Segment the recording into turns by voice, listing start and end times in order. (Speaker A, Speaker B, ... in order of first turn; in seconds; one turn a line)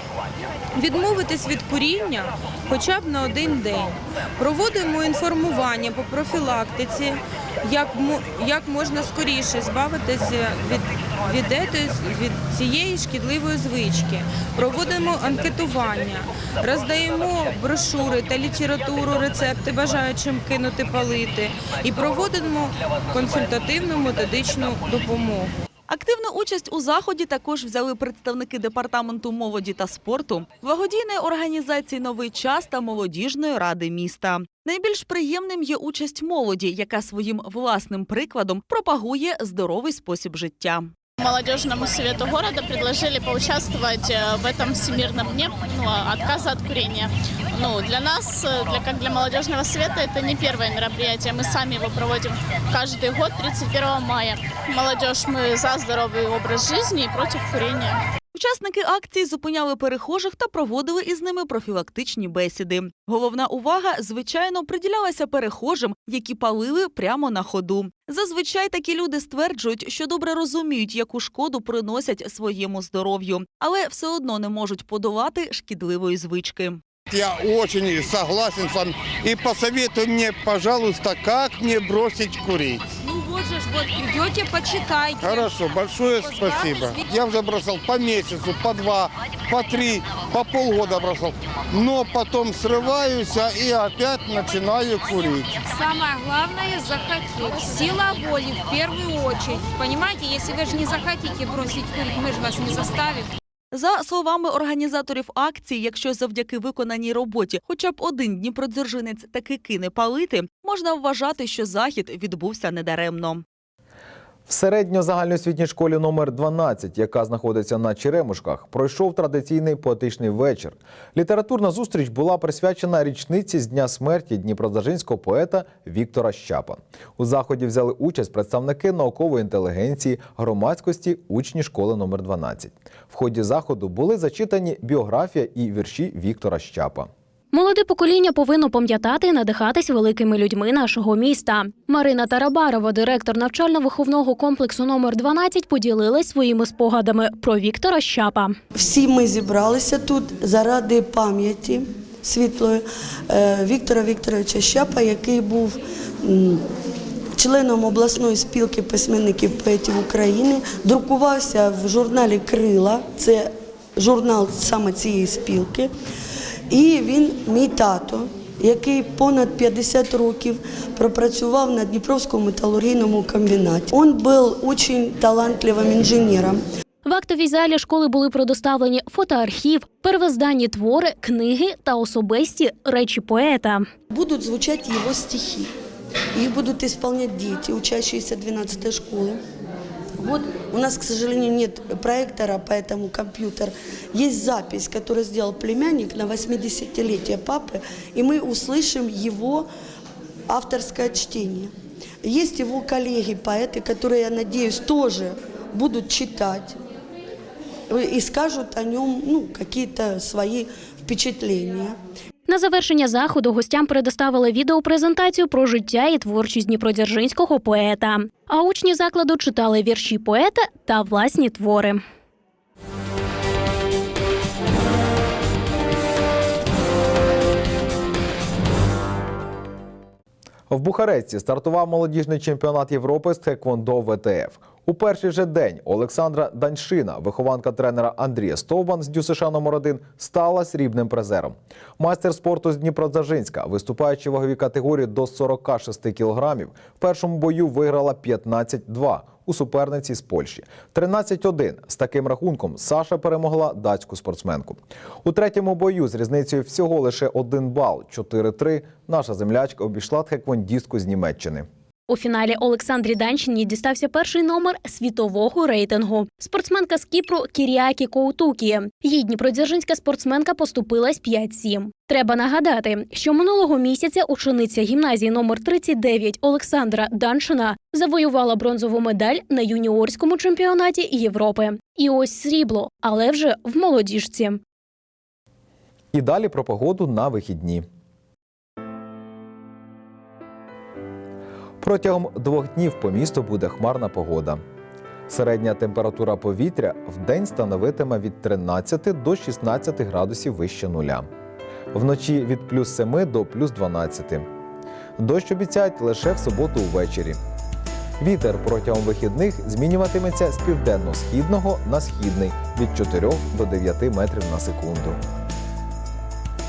Speaker A: 0.7-25.6
Speaker B: 25.9-40.9
Speaker C: 41.2-58.0
Speaker B: 58.3-76.8
Speaker D: 77.1-82.8
Speaker A: 83.1-85.4
Speaker D: 85.2-95.5
Speaker A: 86.3-86.8
Speaker A: 95.8-103.3
Speaker B: 103.7-113.4
Speaker E: 114.5-137.1
Speaker F: 137.5-148.6
Speaker G: 148.7-156.6
Speaker G: 157.3-165.9
Speaker G: 166.7-176.6
Speaker F: 177.0-183.9
Speaker G: 184.1-185.7
Speaker G: 186.3-189.4
Speaker G: 190.2-199.7
Speaker G: 200.5-201.7
Speaker G: 202.2-206.8
Speaker G: 207.9-212.0
Speaker F: 212.5-222.0
Speaker E: 230.7-261.7
Speaker F: 262.1-284.6
Speaker E: 286.1-287.9
Speaker E: 291.8-294.6
Speaker E: 295.3-301.3
Speaker E: 301.9-304.5
Speaker E: 305.2-307.4
Speaker E: 308.2-315.2